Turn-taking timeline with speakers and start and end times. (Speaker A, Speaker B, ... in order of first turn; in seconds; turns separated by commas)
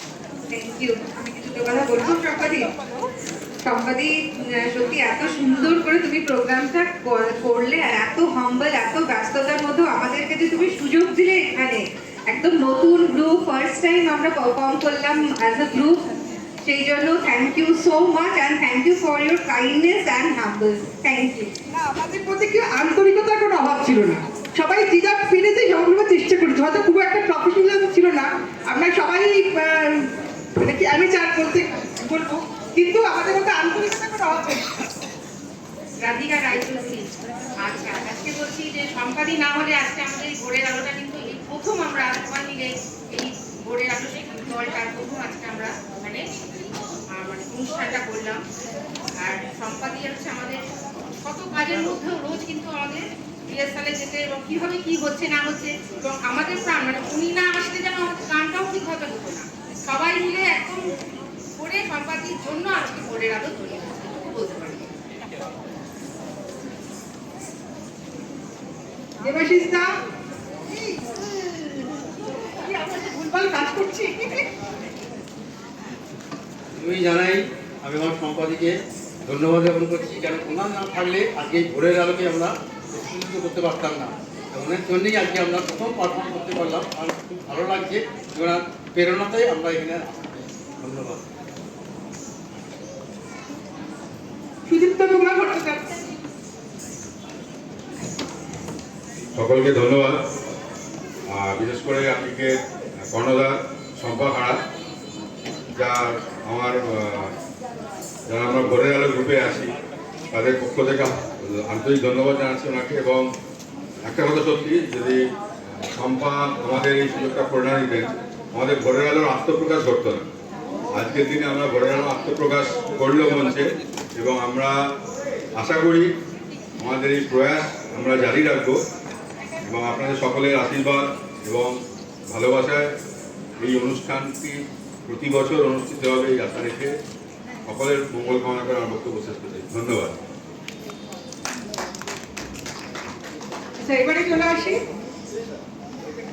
Speaker A: 0.5-2.7, Speaker A: 3.6-16.0, Speaker A: 16.6-21.5, Speaker B: 21.8-34.7, Speaker C: 36.0-46.3, Speaker C: 47.1-48.4, Speaker C: 49.2-50.7, Speaker C: 51.2-60.9, Speaker C: 61.6-64.9, Speaker B: 69.2-69.9, Speaker B: 70.7-71.0, Speaker B: 72.6-74.5, Speaker D: 76.7-91.2, Speaker B: 94.7-96.0, Speaker E: 99.3-100.2, Speaker E: 101.3-104.6, Speaker E: 105.8-107.3, Speaker E: 108.3-109.7, Speaker E: 110.3-113.3, Speaker E: 114.0-115.2, Speaker E: 115.9-120.3, Speaker E: 120.9-124.9, Speaker E: 125.6-126.1, Speaker E: 126.8-128.8, Speaker E: 129.7-131.8, Speaker E: 132.3-132.9, Speaker E: 133.6-136.9, Speaker E: 137.7-140.1, Speaker B: 143.8-144.8